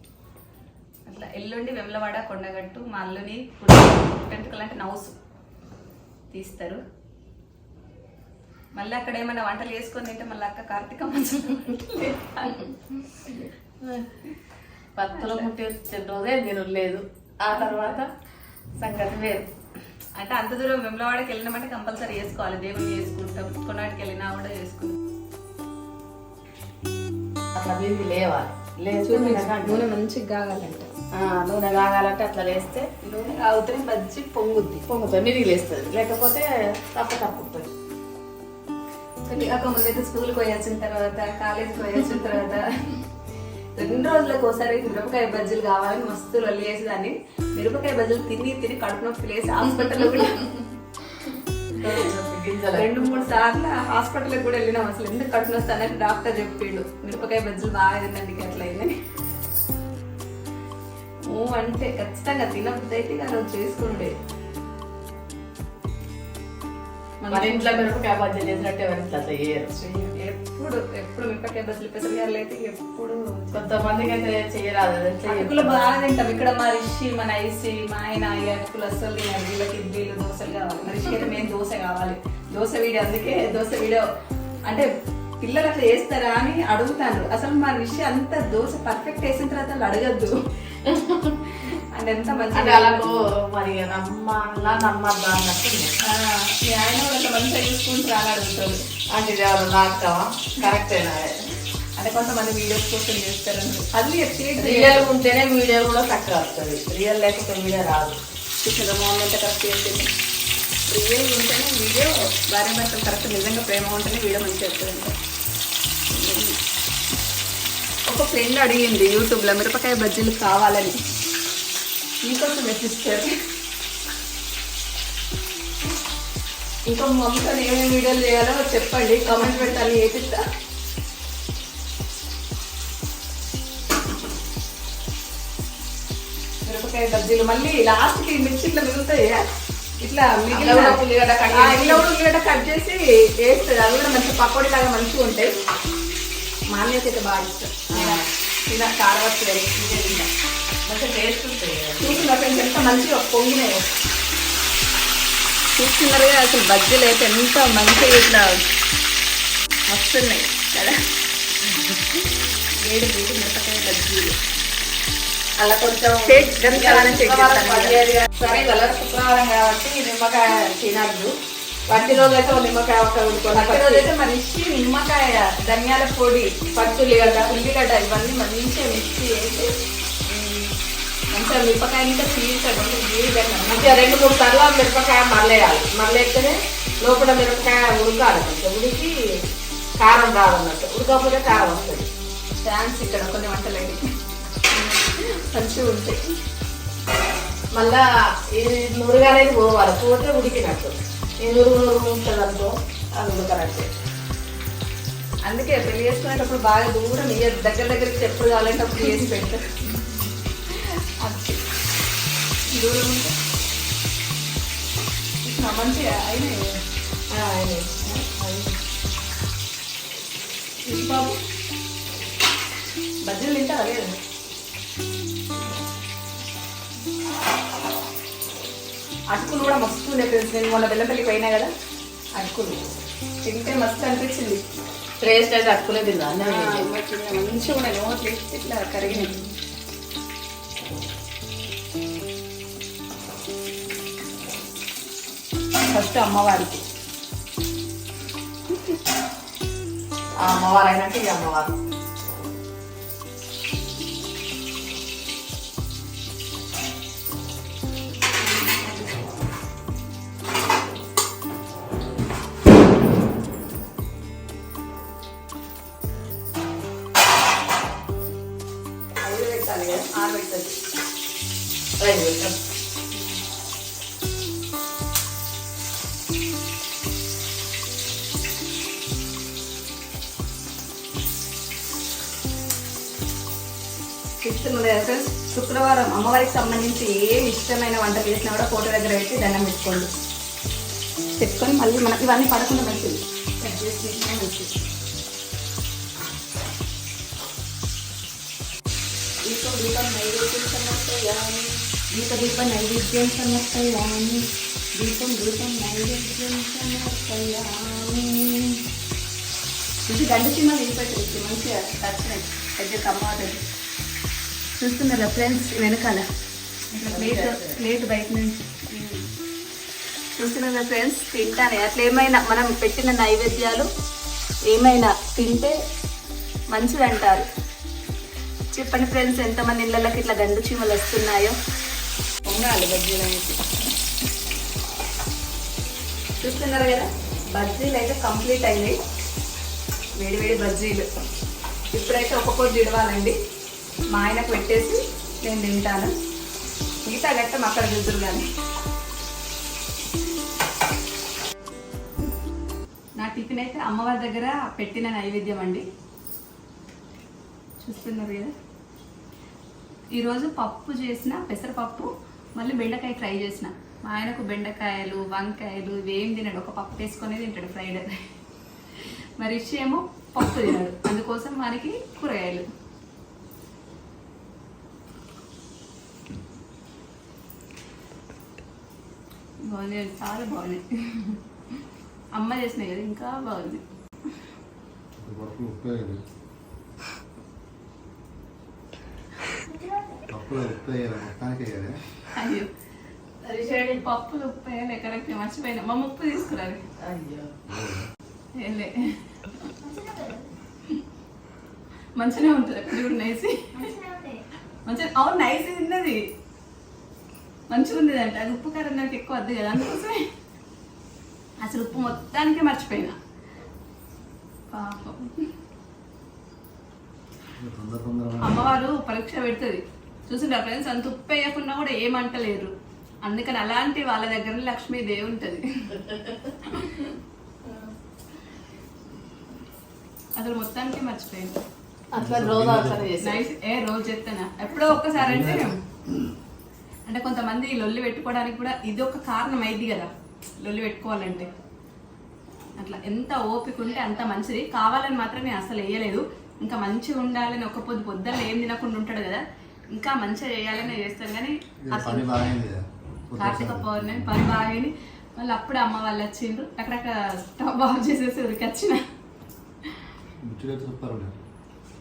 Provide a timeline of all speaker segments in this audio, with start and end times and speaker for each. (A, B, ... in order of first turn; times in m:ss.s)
0:01.1-0:05.2 A
0:06.3-0:06.8 A
0:08.7-0:12.7 A
0:13.3-0:14.1 B
0:15.0-0:18.1 B
0:15.1-0:15.5 A
0:17.5-0:18.0 A
0:18.8-0:19.5 B
0:20.2-0:25.0 A
0:27.6-0:29.9 B
0:29.1-0:30.9 A
0:31.1-0:32.9 B
0:33.0-0:34.8 A
0:34.9-0:37.7 B
0:39.3-0:43.0 A
0:43.8-0:50.6 A
0:51.7-0:53.4 B
0:52.7-0:58.9 A
1:01.3-1:04.1 A
1:07.2-1:07.9 A
1:07.3-1:09.7 B
1:09.7-1:13.8 A
1:13.5-1:15.9 B
1:15.3-1:24.0 A
1:25.4-1:30.3 A
1:30.8-1:31.5 B
1:31.6-1:33.0 A
1:32.5-1:35.9 B
1:36.1-1:38.8 A
1:39.1-1:41.4 B
1:42.0-1:45.0 A
1:44.6-1:48.2 B
1:48.6-1:50.1 A
1:50.9-1:55.1 A
1:56.1-1:56.6 A
1:58.1-2:01.0 A
2:02.2-2:03.3 A
2:06.9-2:10.4 A
2:09.3-2:09.8 B
2:16.7-2:19.5 A
2:20.0-2:25.5 A
2:20.5-2:22.1 B
2:26.7-2:30.3 A
2:27.9-2:28.3 B
2:30.8-2:32.3 B
2:32.0-2:33.8 A
2:35.8-2:38.6 A
2:39.9-2:41.0 A
2:41.7-2:42.0 B
2:42.8-2:44.4 A
2:45.6-2:51.3 B
2:46.3-2:48.0 A
2:51.9-2:54.1 B
2:53.5-2:59.7 A
2:56.8-2:57.5 B
3:00.3-3:00.7 B
3:01.3-3:04.1 A
3:03.7-3:09.2 B
3:10.0-3:12.1 B
3:12.6-3:14.1 A
3:15.0-3:16.3 A
3:17.7-3:23.9 B
3:25.4-3:29.6 A
3:30.7-3:31.6 A
3:32.7-3:33.3 A
3:35.4-3:36.7 A
3:37.3-3:38.8 B
3:40.9-3:41.4 A
3:43.2-3:44.2 A
3:49.3-3:51.7 A
3:52.3-3:52.8 A
3:53.4-3:54.6 A
3:55.2-3:56.9 B
3:56.4-3:59.4 A
3:59.0-3:59.5 B
4:05.9-4:06.8 A
4:10.4-4:11.8 B
4:18.4-4:19.3 A
4:29.2-4:30.8 A
4:32.0-4:32.6 B
4:44.4-4:50.1 A
4:51.4-4:54.7 A
4:59.4-5:08.8 A
5:10.1-5:13.6 A
5:14.8-5:16.3 A
5:17.0-5:17.8 B
5:17.0-5:19.2 A
5:20.4-5:23.9 A
5:24.7-5:25.8 A
5:26.7-5:27.4 A
5:28.7-5:31.6 A
5:32.4-5:33.6 A
5:36.4-5:39.0 A
5:40.2-5:41.1 A
5:41.9-5:43.4 A
5:44.1-5:46.1 A
5:47.0-5:48.5 A
5:53.2-5:55.8 A
5:57.8-5:58.5 A
6:00.2-6:08.2 A
6:09.0-6:12.7 A
6:19.7-6:21.4 A
6:22.4-6:23.8 A
6:25.2-6:26.2 C
6:30.3-6:32.0 C
6:32.3-6:32.7 A
6:33.4-6:34.0 B
6:34.0-6:36.8 A
6:37.0-6:37.5 B
6:37.7-6:38.1 C
6:38.6-6:40.1 A
6:42.2-6:44.1 A
6:44.9-6:46.2 A
6:47.7-6:50.2 A
6:51.6-6:53.2 A
6:54.7-6:55.4 A
6:57.6-6:58.7 C
6:58.4-7:02.7 A
7:03.2-7:06.0 A
7:06.6-7:07.1 A
7:07.7-7:07.9 B
7:10.4-7:11.6 A
7:12.1-7:13.5 B
7:12.2-7:13.1 C
7:13.2-7:15.8 A
7:15.1-7:15.7 C
7:17.1-7:20.1 A
7:20.6-7:21.5 A
7:22.8-7:32.4 A
7:31.8-7:34.4 C
7:33.4-7:39.0 A
7:40.4-7:41.4 C